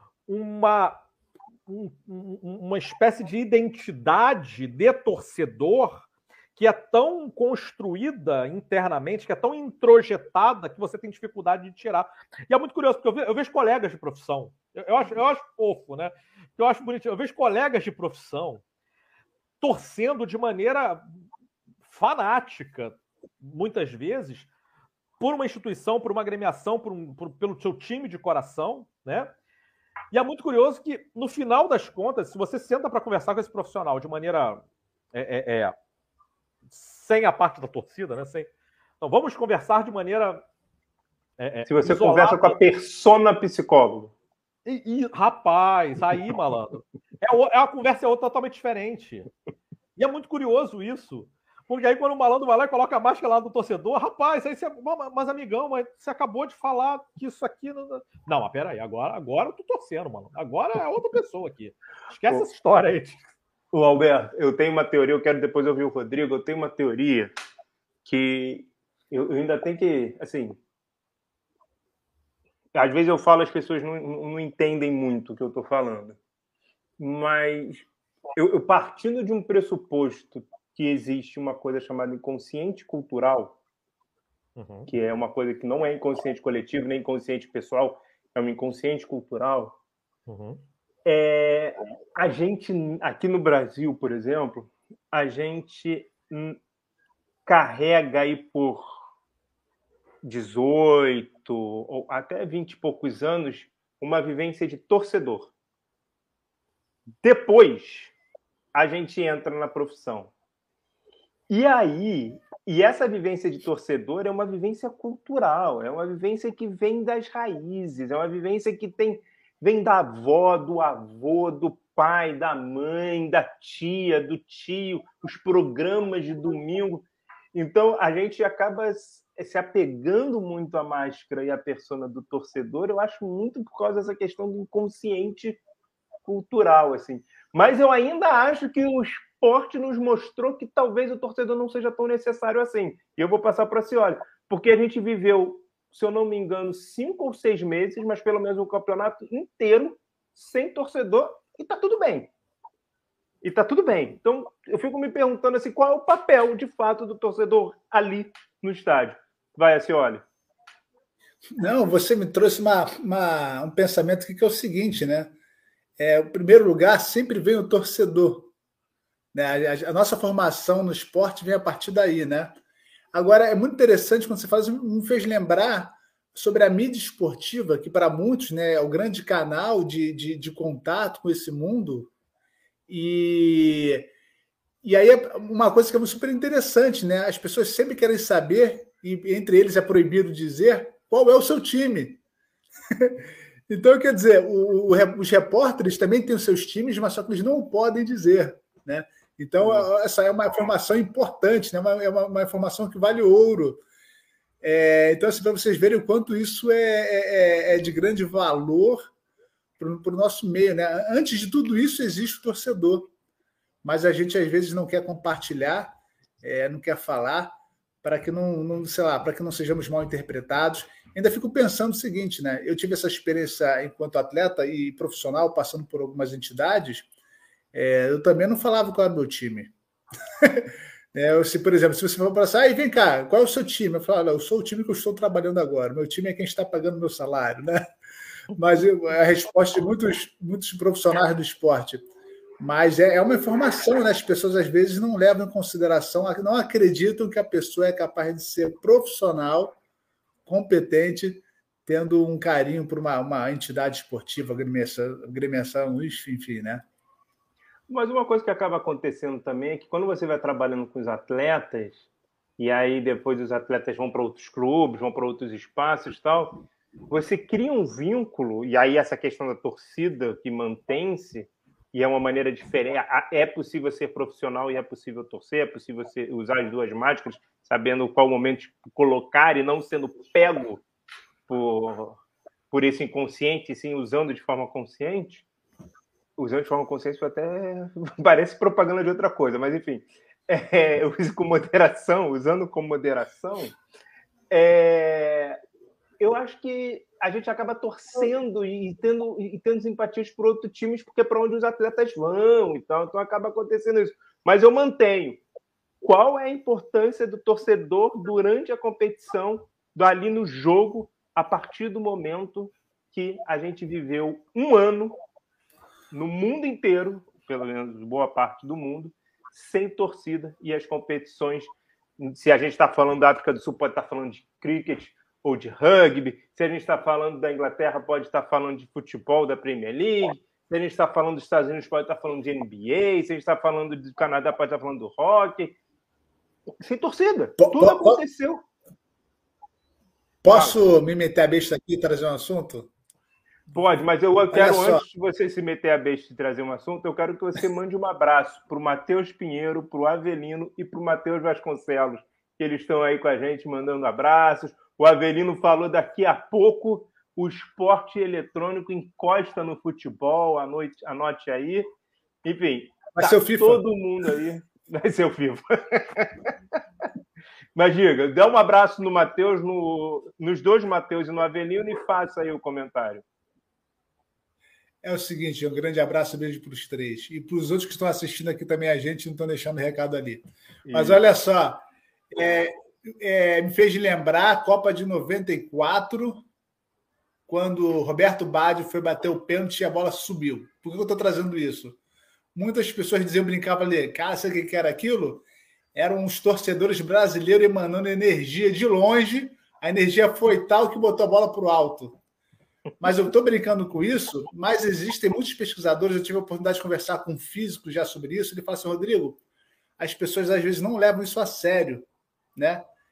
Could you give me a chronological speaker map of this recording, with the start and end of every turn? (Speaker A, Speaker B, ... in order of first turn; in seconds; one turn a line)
Speaker A: 0.3-1.1
Speaker A: 1.7-18.6
Speaker A: 19.6-21.1
Speaker A: 21.8-24.5
Speaker A: 25.2-29.3
Speaker A: 30.1-35.8
Speaker A: 36.7-38.5
Speaker A: 39.0-40.5
Speaker A: 41.4-42.6
Speaker B: 41.7-44.1
Speaker A: 44.7-49.3
Speaker A: 50.0-63.2
Speaker B: 63.7-67.3
Speaker B: 68.0-70.6
Speaker B: 72.7-76.2
Speaker B: 77.0-83.6
Speaker A: 84.6-84.9
Speaker B: 84.9-89.8
Speaker A: 90.3-90.6
Speaker B: 91.0-96.6
Speaker B: 97.5-99.0
Speaker B: 100.2-105.5
Speaker B: 107.2-108.2
Speaker B: 108.7-110.3
Speaker B: 111.5-135.6
Speaker B: 136.2-152.3
Speaker B: 153.4-160.2
Speaker C: 161.6-165.3
Speaker C: 166.0-168.5
Speaker C: 169.3-172.6
Speaker C: 173.1-182.1
Speaker C: 182.9-184.1
Speaker C: 184.8-192.2
Speaker C: 192.9-203.8
Speaker B: 199.6-199.9
Speaker C: 204.6-209.1
Speaker C: 209.8-213.1
Speaker C: 213.8-227.1
Speaker C: 227.7-229.7
Speaker C: 230.4-237.8
Speaker C: 238.6-242.1
Speaker C: 242.6-249.8
Speaker C: 250.5-256.9
Speaker B: 257.9-280.8
Speaker B: 281.5-285.5
Speaker B: 286.4-293.8
Speaker B: 294.5-295.6
Speaker B: 296.2-305.4
Speaker B: 306.0-315.2
Speaker B: 316.1-335.8
Speaker B: 336.8-338.6
Speaker C: 337.6-338.2
Speaker C: 340.4-342.9
Speaker B: 340.5-340.8
Speaker B: 343.7-361.9
Speaker C: 344.5-345.0
Speaker B: 362.4-366.5
Speaker C: 363.1-363.8
Speaker B: 367.8-373.2
Speaker C: 375.0-386.5
Speaker B: 380.9-381.2
Speaker C: 387.5-392.0
Speaker C: 392.6-402.2
Speaker C: 403.0-409.4
Speaker C: 410.0-412.9